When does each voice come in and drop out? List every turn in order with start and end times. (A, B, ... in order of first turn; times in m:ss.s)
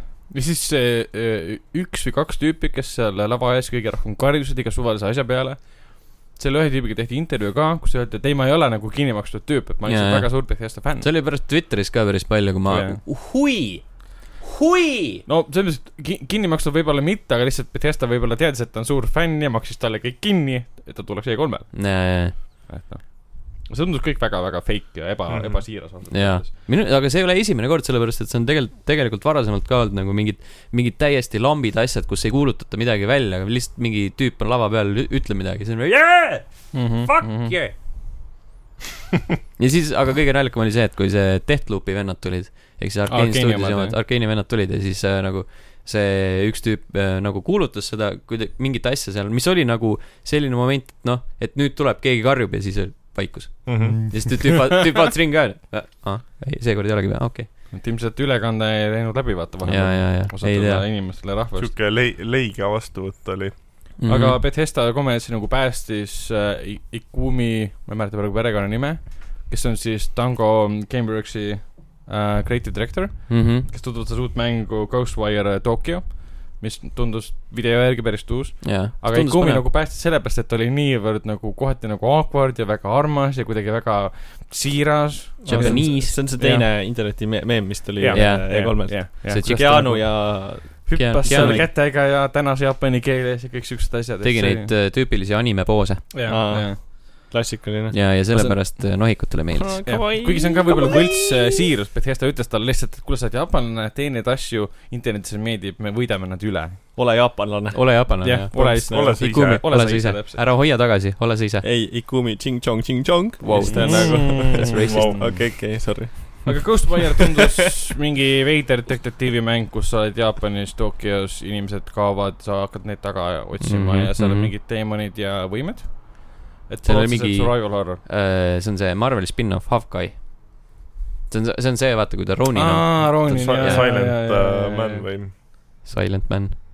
0:00.3-0:11.1 A
0:09.8-0:15.2 B
0:12.6-0:13.0 A
0:15.2-0:26.5 A
0:21.7-0:22.3 B
0:25.3-0:25.7 C
0:26.1-0:37.8 B
0:36.7-0:37.6 A
0:39.6-0:57.5 B
0:43.1-0:44.0 A
0:53.6-0:54.2 C
0:57.7-1:01.7 A
0:59.6-1:00.8 B
1:01.6-1:03.9 C
1:04.0-1:04.4 B
1:04.1-1:26.0 A
1:13.3-1:13.6 B
1:18.6-1:19.7 B
1:25.4-1:26.7 B
1:25.4-1:31.7 D
1:28.0-1:34.7 A
1:28.1-1:31.7 B
1:34.2-1:36.1 B
1:36.1-1:36.8 A
1:36.3-1:38.5 D
1:37.9-1:39.8 B
1:39.5-1:41.4 D
1:39.8-1:46.8 A
1:46.9-1:49.1 D
1:47.7-1:51.6 B
1:48.2-1:50.4 A
1:48.6-1:49.6 C
1:51.6-1:57.4 D
1:53.4-1:55.2 B
1:53.6-1:55.4 A
1:54.0-1:55.3 C
1:56.4-2:08.0 A
2:03.6-2:04.5 B
2:06.8-2:10.7 B
2:11.3-2:14.0 B
2:12.5-2:15.1 A
2:13.2-2:15.3 C
2:15.8-2:16.6 B